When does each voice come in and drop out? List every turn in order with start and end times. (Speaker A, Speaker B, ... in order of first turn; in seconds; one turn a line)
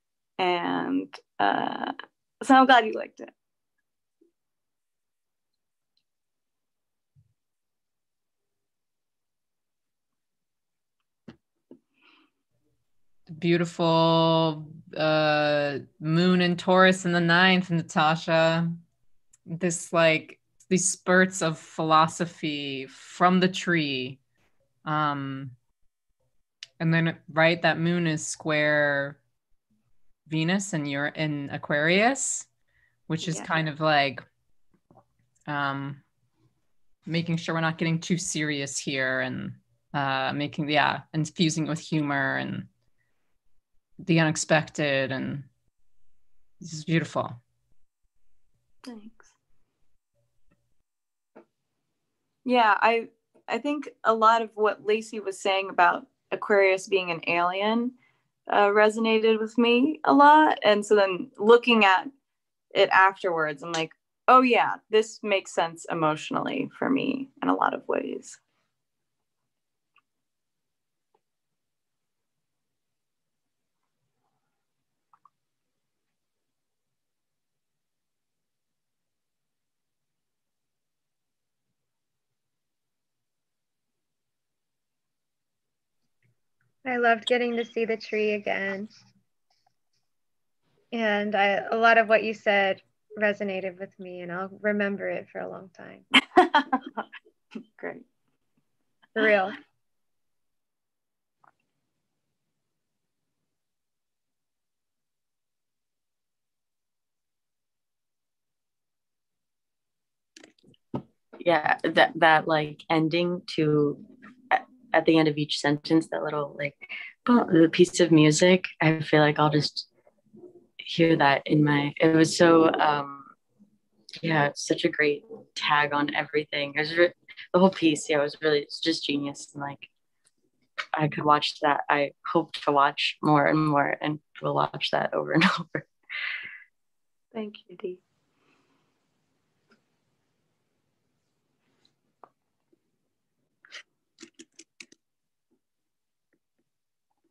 Speaker A: 0.4-3.3
Speaker B: 13.4-18.8
Speaker B: 19.5-24.2
Speaker B: 24.9-25.5
Speaker B: 26.8-29.2
Speaker B: 30.3-32.5
Speaker B: 33.1-34.2
Speaker A: 33.2-33.5
Speaker B: 35.5-36.0
Speaker B: 37.1-42.7
Speaker B: 44.0-45.5
Speaker B: 46.6-47.4
Speaker A: 48.9-49.3
Speaker A: 52.5-57.9
Speaker A: 58.5-62.1
Speaker A: 62.7-68.4
Speaker C: 86.8-88.9
Speaker C: 90.9-96.0
Speaker A: 96.2-97.0
Speaker A: 97.8-98.0
Speaker C: 99.2-99.5
Speaker D: 111.4-119.9
Speaker D: 120.8-123.3
Speaker D: 124.2-129.9
Speaker D: 131.0-135.9
Speaker A: 137.3-138.0